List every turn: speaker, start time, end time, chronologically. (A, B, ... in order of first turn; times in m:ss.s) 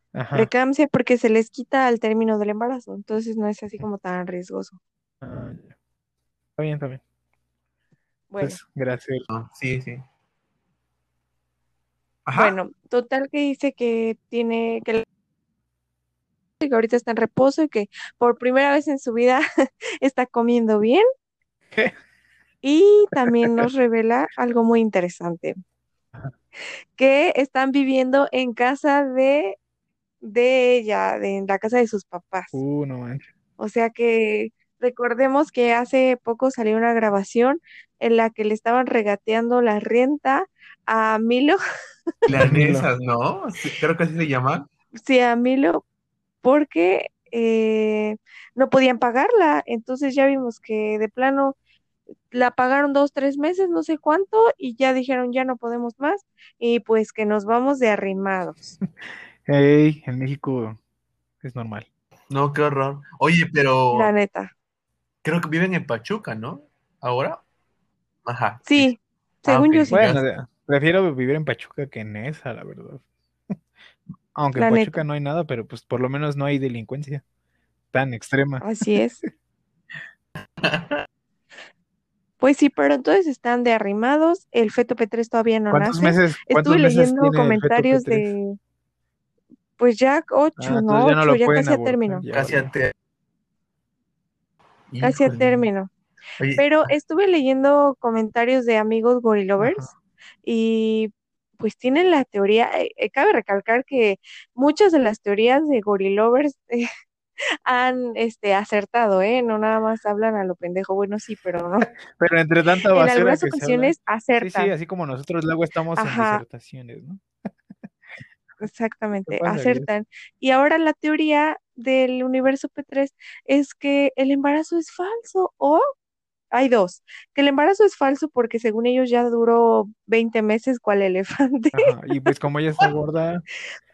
0:00.1-0:00.5 A
0:00.3-0:04.8 B
0:05.2-0:05.8 A
0:06.6-0:07.0 A
0:08.3-0:08.6 B
0:08.4-0:09.3 A
0:09.3-0:10.0 C
0:12.3-0:12.6 C
0:12.4-0:15.0 B
0:16.6-0:19.4 B
0:20.0-0:21.0 B
0:22.6-0:25.6 B
0:23.4-0:23.7 A
0:27.0-0:29.6 B
0:30.2-0:32.6 B
0:32.5-0:33.3 A
0:33.6-0:41.6 B
0:42.3-0:44.7 C
0:42.3-0:42.9 A
0:45.0-0:45.8 B
0:46.4-0:51.6 B
0:52.3-0:58.6 B
0:59.5-1:00.8 A
1:01.4-1:01.9 A
1:02.3-1:04.1 C
1:03.9-1:04.5 B
1:05.2-1:07.4 C
1:08.3-1:08.9 C
1:08.7-1:10.0 B
1:09.5-1:10.2 C
1:09.9-1:13.0 A
1:14.4-1:17.2 A
1:14.6-1:15.0 B
1:17.9-1:18.7 A
1:18.6-1:19.2 B
1:20.6-1:21.0 C
1:22.4-1:28.6 B
1:25.7-1:28.3 A
1:29.8-1:32.2 B
1:30.6-1:32.7 A
1:32.3-1:32.9 C
1:34.9-1:35.7 C
1:35.0-1:35.9 B
1:36.4-1:36.9 C
1:36.6-1:39.9 B
1:39.6-1:39.9 A
1:40.4-1:46.9 B
1:47.7-1:51.9 B
1:52.2-1:57.2 A
1:52.9-1:54.7 B
1:56.0-1:56.4 B
1:58.6-2:05.8 B
1:59.3-1:59.9 A
2:06.5-2:12.9 B
2:11.7-2:13.4 A